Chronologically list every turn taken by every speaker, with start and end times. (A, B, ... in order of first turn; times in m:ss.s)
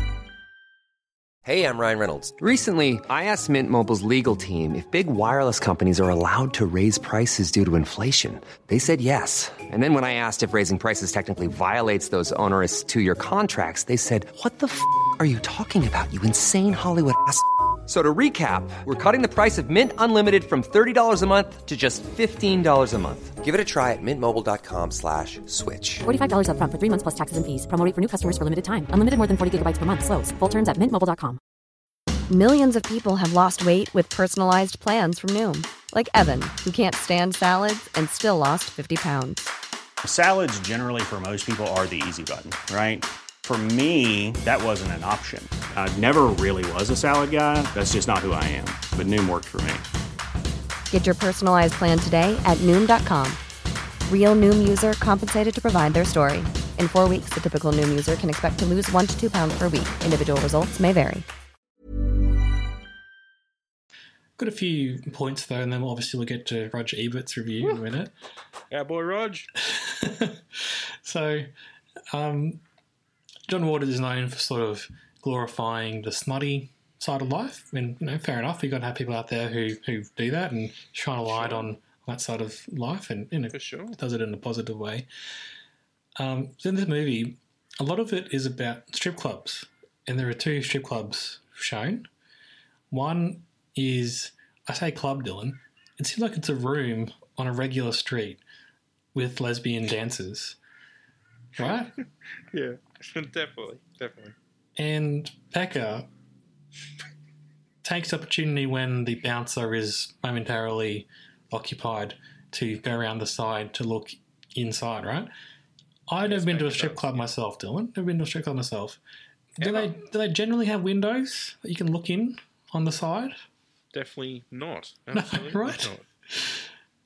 0:01.4-0:26.1 A
0:26.1-0:31.4 B
0:32.3-0:39.5 C
0:40.0-0:49.9 D
0:50.9-0:53.4 C
0:54.1-1:01.3 C
1:04.4-1:08.1 E
1:08.7-1:09.5 F
1:09.6-1:11.5 E
1:12.1-1:12.6 E
1:13.5-1:25.1 E
1:21.3-1:21.7 F
1:23.5-1:24.0 F
1:26.2-1:32.1 E
1:32.9-1:38.4 E
1:39.1-1:40.6 E
1:41.6-1:42.0 E
1:42.5-1:44.4 F
1:44.8-1:46.1 E
1:47.8-1:55.3 E
1:56.1-1:59.0 E
1:56.2-1:57.2 F
1:59.6-2:03.4 E
1:59.6-2:00.0 F
2:03.9-2:06.0 F
2:05.1-2:06.6 E